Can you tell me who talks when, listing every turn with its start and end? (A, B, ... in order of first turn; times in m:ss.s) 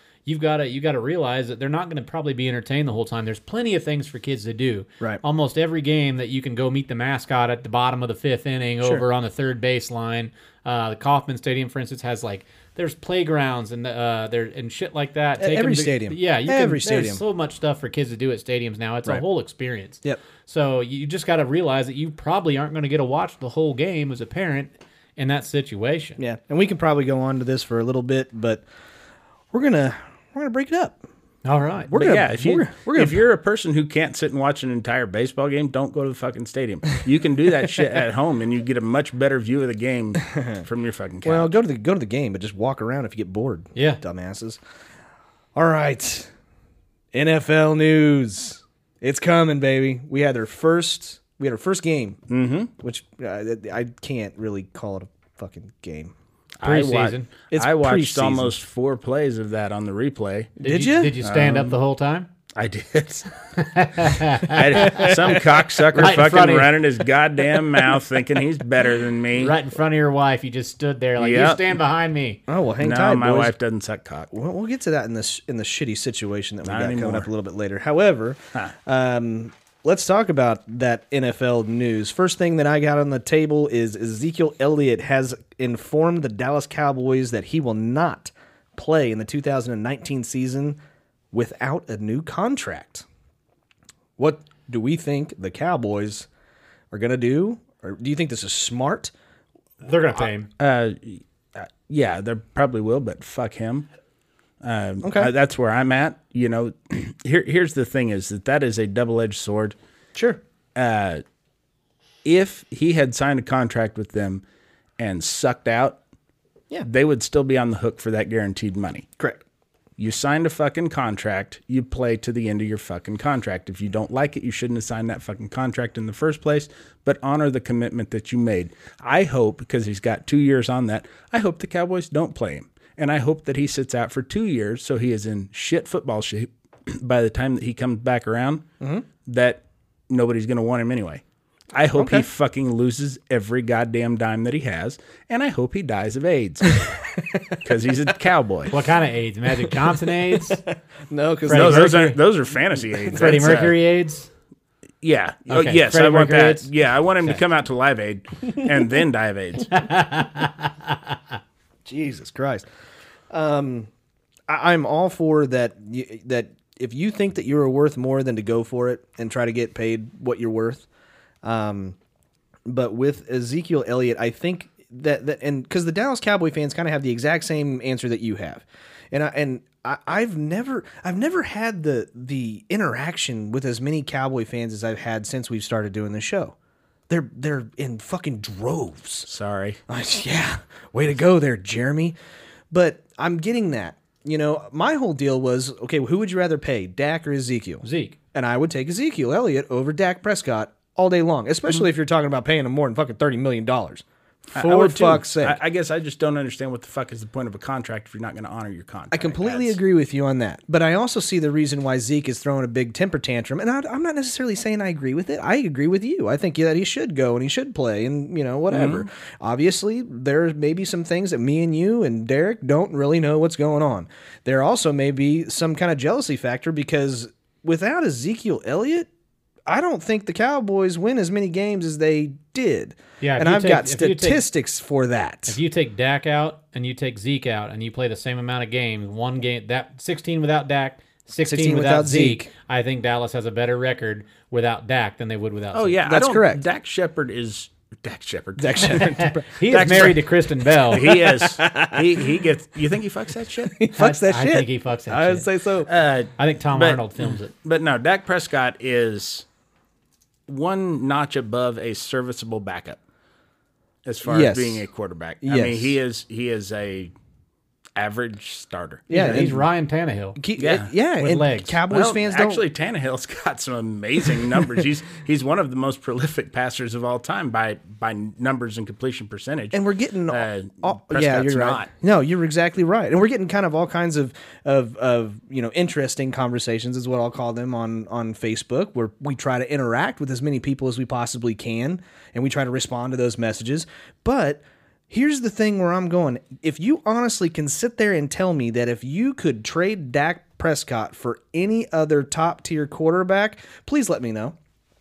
0:00.3-0:26.2 A
0:15.4-0:17.2 B
0:26.2-0:28.6 B
0:29.5-0:31.0 B
0:31.4-0:32.0 A
0:31.9-0:33.2 B
0:32.0-0:41.5 C
0:40.2-0:40.6 B
0:41.2-0:44.6 B
0:43.8-0:44.0 A
0:45.6-0:46.3 B
0:47.1-0:52.2 B
0:52.3-0:52.7 C
0:52.8-0:56.1 B
0:56.6-1:00.6 C
0:56.6-0:57.3 A
0:57.5-0:58.6 B
1:00.6-1:01.2 B
1:00.6-1:02.3 A
1:01.2-1:01.8 C
1:02.6-1:03.3 C
1:03.6-1:05.2 A
1:04.5-1:09.6 C
1:05.9-1:06.8 A
1:09.4-1:12.4 A
1:11.2-1:11.7 C
1:12.5-1:13.5 B
1:12.8-1:14.3 C
1:14.3-1:30.8 B
1:16.6-1:17.3 C
1:31.3-1:33.0 B
1:34.2-1:36.3 B
1:36.9-1:39.1 B
1:39.8-1:40.5 A
1:40.6-1:43.9 C
1:44.6-1:49.8 C
1:45.0-1:45.3 B
1:50.2-1:50.4 B
1:50.8-1:51.2 C
1:52.2-1:54.4 C
1:55.0-1:56.0 C
1:56.8-1:59.1 C
2:00.0-2:18.6 C
2:19.2-2:21.2 C
2:21.7-2:26.8 C
2:22.0-2:22.3 B
2:27.6-2:28.8 C
2:28.7-2:30.6 A
2:30.0-2:32.2 B
2:31.5-2:32.2 A
2:31.5-2:33.7 C
2:32.9-2:33.7 B
2:33.2-2:34.3 A
2:35.0-2:39.8 C
2:35.5-2:37.4 A
2:39.7-2:41.2 A
2:41.9-2:42.6 B
2:43.3-2:43.9 B
2:44.5-2:50.8 B
2:51.4-2:52.0 B
2:52.7-3:06.5 B
3:07.1-3:09.3 B
3:09.3-3:09.8 C
3:09.9-3:12.2 B
3:12.7-3:24.0 B
3:17.8-3:18.2 A
3:24.5-3:29.8 C
3:24.6-3:25.6 B
3:29.1-3:49.1 B
3:38.7-3:39.1 C
3:49.7-3:55.6 B
3:53.2-3:54.4 A
3:55.5-4:06.0 A
4:01.4-4:02.5 B
4:05.7-4:10.2 C
4:06.0-4:06.6 B
4:08.6-4:10.1 B
4:08.9-4:11.1 A
4:10.9-4:13.7 C
4:11.0-4:12.4 B
4:13.7-4:15.9 B
4:13.9-4:15.5 A
4:15.8-4:19.5 C
4:16.4-4:17.5 A
4:20.5-4:23.0 C
4:24.0-4:27.1 C
4:24.3-4:24.9 B
4:25.4-4:26.0 B
4:28.0-4:29.1 C
4:29.1-4:29.7 B
4:29.1-4:30.4 A
4:30.4-4:32.6 B
4:30.6-4:30.9 C
4:31.2-4:31.8 A
4:31.9-4:41.9 C
4:39.7-5:04.6 B